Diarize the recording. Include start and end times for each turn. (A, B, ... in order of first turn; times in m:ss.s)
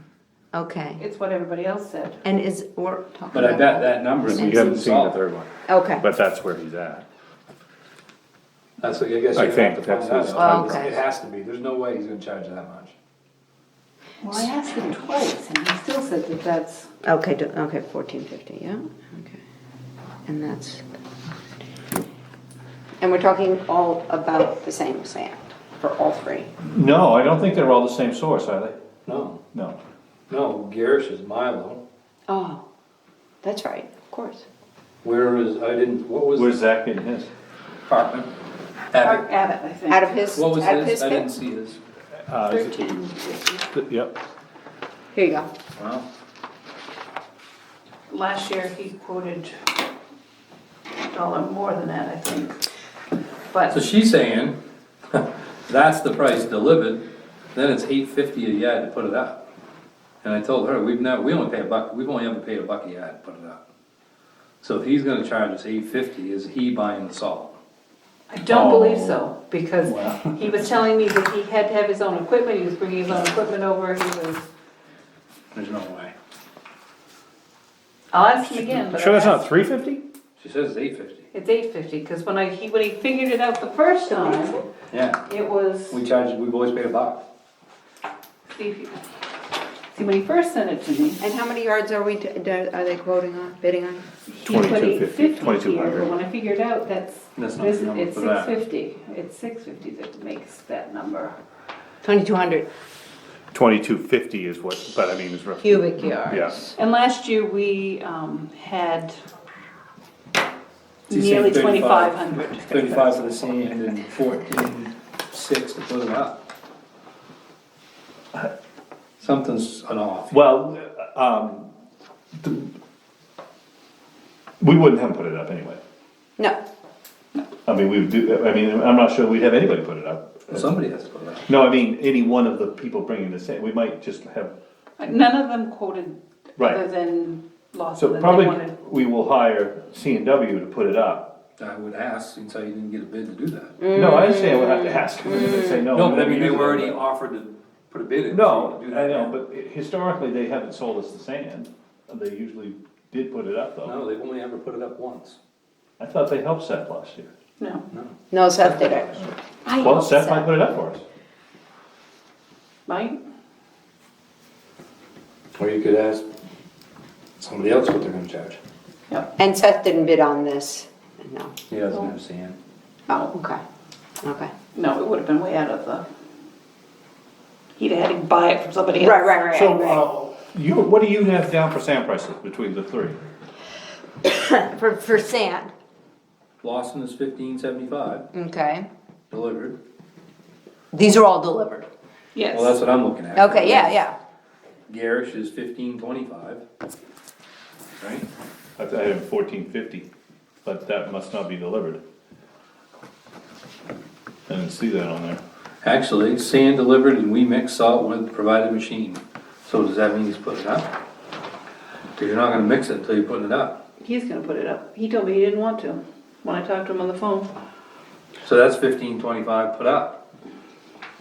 0:00.5-0:01.0 A
0:01.0-0:02.2 B
0:02.2-0:04.6 A
0:03.3-0:05.2 C
0:04.2-0:07.1 D
0:05.7-0:06.1 A
0:08.8-0:13.0 C
0:09.4-0:10.8 D
0:10.3-0:11.0 A
0:14.2-0:16.9 B
0:17.0-0:19.4 A
0:20.3-0:20.9 A
0:23.0-0:26.5 A
0:26.6-0:28.8 D
0:29.1-0:29.4 C
0:30.3-0:31.8 C
0:32.3-0:32.6 A
0:33.4-0:34.4 A
0:35.0-0:36.6 C
0:36.3-0:37.3 D
0:37.9-0:38.3 C
0:38.9-0:39.2 C
0:39.0-0:40.2 B
0:39.9-0:41.3 A
0:40.3-0:41.8 C
0:42.3-0:43.0 D
0:42.4-0:43.6 B
0:43.7-0:44.2 D
0:45.1-0:45.5 A
0:45.8-0:46.1 C
0:48.1-0:49.6 B
0:51.1-0:52.6 B
0:53.5-0:53.8 B
0:53.7-0:54.6 C
0:55.1-0:59.4 C
1:00.2-1:03.6 C
1:04.6-1:07.6 C
1:08.3-1:14.5 B
1:08.5-1:09.2 D
1:09.9-1:10.2 D
1:15.5-1:16.1 C
1:18.1-1:19.4 B
1:18.4-1:20.0 D
1:20.4-1:21.2 C
1:21.3-1:24.7 B
1:24.9-1:25.2 C
1:25.2-1:26.0 B
1:25.9-1:27.2 C
1:28.5-1:29.0 B
1:29.9-1:31.2 B
1:31.2-1:34.0 A
1:34.3-1:41.3 B
1:34.4-1:36.1 D
1:37.4-1:38.6 C
1:42.0-1:42.7 A
1:43.5-1:46.6 D
1:45.6-1:46.7 A
1:46.8-1:49.1 B
1:51.1-1:53.2 B
1:51.1-1:56.4 C
1:59.2-2:00.4 C
2:00.3-2:01.7 D
2:02.4-2:02.7 D
2:04.6-2:05.8 D
2:07.7-2:10.7 D
2:10.5-2:11.5 C
2:11.5-2:14.5 D
2:15.0-2:18.7 B
2:16.6-2:16.8 D
2:18.0-2:21.3 D
2:21.6-2:23.8 C
2:23.8-2:25.8 A
2:23.9-2:27.0 D
2:25.9-2:29.3 C
2:28.3-2:34.0 D
2:33.8-2:35.4 C
2:36.0-2:37.3 D
2:37.6-2:37.9 B
2:37.9-2:39.3 C
2:38.3-2:39.1 A
2:39.2-2:41.0 D
2:39.7-2:40.0 B
2:40.1-2:40.4 A
2:42.9-2:43.2 B
2:45.6-2:46.3 C
2:47.4-2:48.6 C
2:49.4-2:51.5 A
2:51.7-2:52.6 C
2:53.1-2:53.6 A
2:54.2-2:54.5 A
2:54.7-2:56.0 B
2:57.8-2:59.8 B
2:59.0-3:00.1 A
2:59.5-3:03.2 D
3:04.2-3:05.7 A
3:06.6-3:08.3 C
3:08.3-3:08.9 A
3:09.3-3:09.8 C
3:10.9-3:11.9 A
3:12.4-3:12.8 B
3:12.4-3:14.0 C
3:13.4-3:14.2 A
3:14.9-3:16.6 C
3:18.0-3:18.3 C
3:18.8-3:20.1 D
3:20.6-3:22.0 D
3:24.5-3:25.4 D
3:25.8-3:30.9 C
3:32.2-3:33.8 C
3:34.0-3:37.5 B
3:38.4-3:40.2 C